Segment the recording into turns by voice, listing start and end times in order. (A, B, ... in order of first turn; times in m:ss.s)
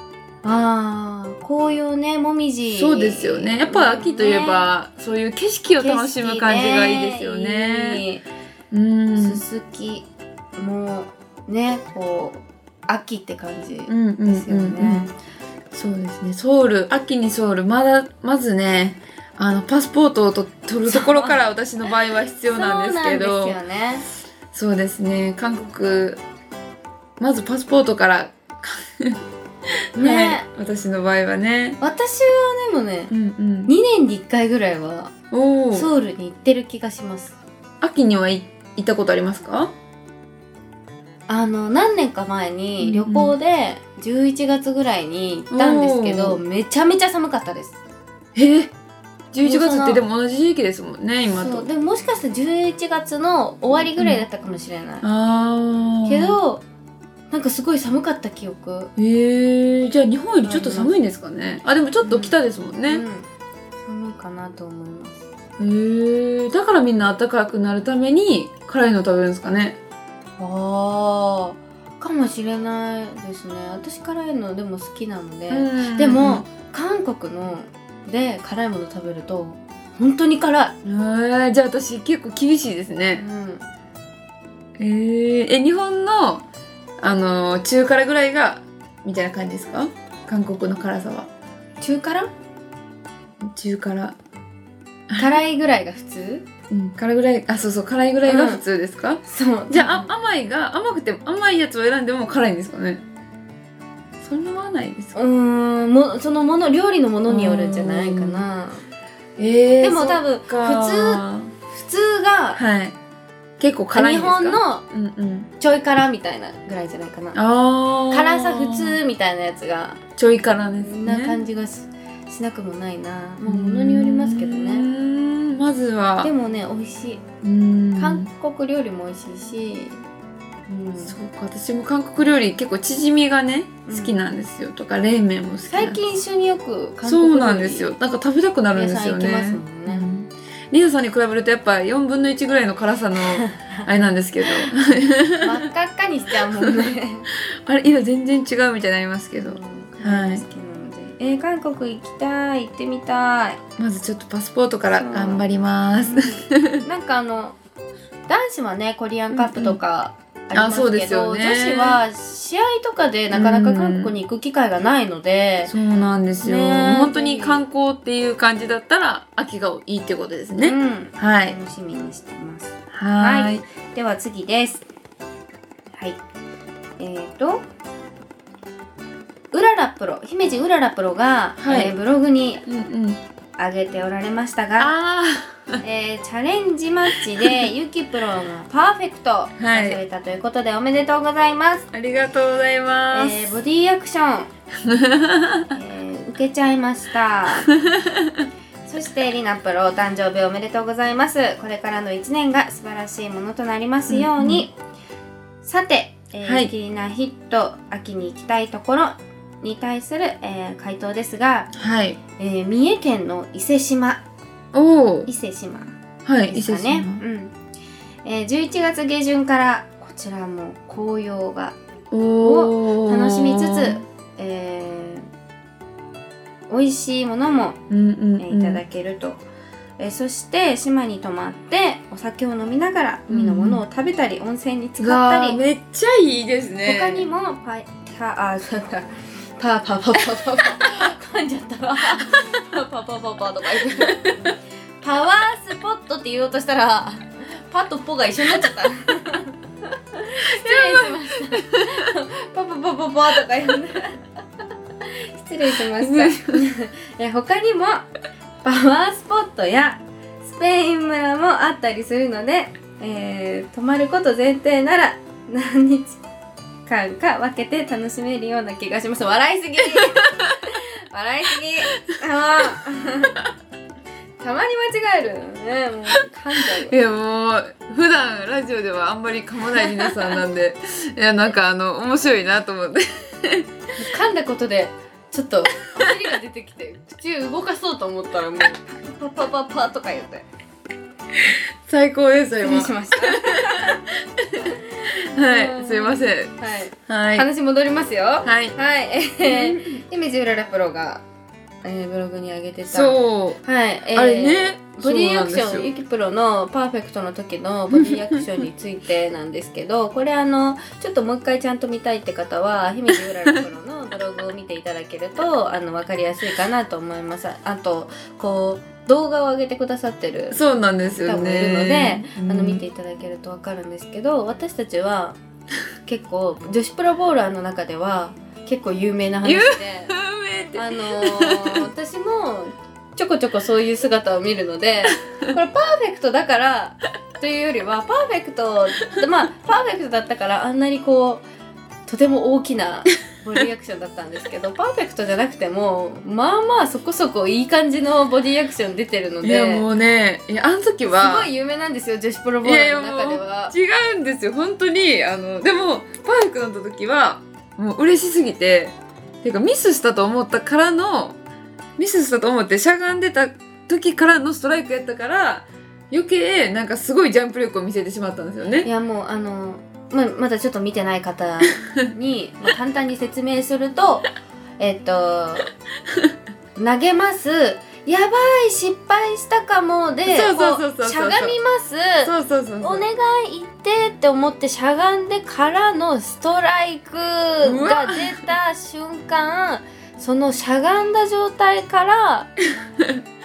0:00.4-0:04.7 A
0:02.7-0:08.0 B
0:05.8-0:08.2 A
0:08.7-0:09.4 B
0:09.2-0:15.1 A
0:13.9-0:15.1 B
0:15.7-0:23.6 B
0:20.8-0:21.4 A
0:22.5-0:24.0 A
0:24.5-0:26.2 B
0:27.2-0:29.2 B
0:29.9-0:31.8 B
0:30.0-0:30.5 A
0:31.8-0:33.2 A
0:33.1-0:33.7 B
0:33.7-0:35.1 A
0:35.3-0:35.9 B
0:35.7-0:37.4 A
0:37.8-0:39.7 B
0:41.3-0:47.8 A
0:42.8-0:43.4 B
0:45.5-0:46.4 B
0:48.4-0:48.7 B
0:49.3-0:51.7 B
0:49.4-0:50.0 A
0:51.3-0:55.1 A
0:54.0-0:54.2 B
0:55.0-0:56.4 B
0:56.0-0:56.6 A
0:57.3-0:58.9 A
0:59.0-1:03.0 B
1:00.4-1:01.0 A
1:02.0-1:02.4 A
1:02.9-1:03.3 A
1:03.8-1:05.2 A
1:05.6-1:09.8 B
1:10.4-1:20.8 A
1:15.5-1:16.4 B
1:20.8-1:23.2 B
1:23.2-1:23.7 A
1:24.8-1:26.4 B
1:27.0-1:31.3 B
1:31.8-1:32.3 A
1:33.4-1:34.2 B
1:35.1-1:35.4 B
1:35.1-1:36.4 A
1:36.7-1:43.0 B
1:38.2-1:38.6 A
1:39.2-1:40.1 A
1:44.2-1:45.2 B
1:45.2-1:48.9 A
1:47.3-1:48.4 B
1:49.4-1:51.5 B
1:49.8-1:52.6 A
1:52.6-1:53.0 B
1:53.6-1:55.5 B
1:53.9-1:54.8 A
1:55.6-1:57.4 A
1:57.3-1:59.0 B
1:58.1-2:00.0 A
2:00.2-2:01.4 B
2:00.8-2:04.9 A
2:03.4-2:06.3 B
2:06.2-2:07.2 A
2:07.4-2:08.3 B
2:08.0-2:10.0 A
2:10.7-2:11.2 A
2:11.0-2:16.0 B
2:13.9-2:14.2 A
2:15.7-2:17.9 A
2:17.0-2:25.6 B
2:18.7-2:20.1 A
2:23.2-2:23.9 A
2:24.4-2:24.7 A
2:25.4-2:27.3 A
2:26.4-2:30.4 B
2:29.4-2:33.6 A
2:33.8-2:36.8 B
2:34.9-2:35.5 A
2:36.0-2:37.6 A
2:38.3-2:45.7 A
2:39.3-2:39.8 B
2:40.5-2:42.0 B
2:43.3-2:44.1 B
2:45.7-2:51.6 B
2:46.4-2:47.6 A
2:50.6-2:54.8 A
2:52.9-2:53.6 B
2:55.9-2:56.2 A
2:57.0-2:57.7 A
2:59.5-3:02.6 A
3:01.6-3:01.9 B
3:02.7-3:03.2 B
3:03.6-3:04.9 A
3:04.8-3:05.8 B
3:05.8-3:11.9 A
3:09.6-3:10.0 B
3:11.9-3:13.5 B
3:13.1-3:14.5 A
3:14.8-3:15.7 B
3:15.7-3:17.7 A
3:17.7-3:18.5 B
3:18.8-3:24.8 A
3:24.1-3:24.6 B
3:25.6-3:31.7 A
3:26.4-3:26.7 B
3:31.7-3:32.2 B
3:32.4-3:34.2 A
3:34.7-3:35.3 B
3:35.3-3:36.0 A
3:36.3-3:37.2 B
3:36.5-3:37.6 A
3:38.2-3:41.8 A
3:42.1-3:44.0 B
3:42.4-3:45.3 A
3:46.7-3:47.8 A
3:47.9-3:48.8 B
3:48.4-3:49.4 A
3:50.0-3:55.6 A
3:53.3-3:53.8 B
3:55.0-3:57.3 B
3:56.8-4:04.4 A
4:03.8-4:04.1 B
4:05.0-4:14.2 A
4:10.4-4:12.1 B
4:15.0-4:18.1 A
4:15.8-4:16.6 B
4:18.6-4:26.2 A
4:26.9-4:33.4 A
4:30.0-4:30.4 B
4:34.4-4:37.0 A
4:36.6-4:43.7 B
4:39.8-4:40.1 A
4:44.0-4:50.5 A
4:51.3-4:56.6 B
4:52.6-4:54.0 A
4:54.6-5:01.2 A
4:57.1-4:57.5 B
4:58.4-4:58.8 B
4:59.4-4:59.9 B
5:01.8-5:25.4 A
5:02.9-5:03.6 B
5:04.1-5:05.9 B
5:07.9-5:08.4 B
5:20.5-5:22.8 B
5:26.1-5:30.2 A
5:29.4-5:31.9 B
5:30.8-5:41.4 A
5:42.1-5:49.9 A
5:49.4-5:51.5 B
5:51.0-5:53.7 A
5:52.6-6:01.4 B
6:02.0-6:08.9 B
6:08.8-6:15.7 A
6:16.8-6:32.5 A
6:20.3-6:21.6 B
6:22.2-6:23.1 B
6:27.6-6:28.4 B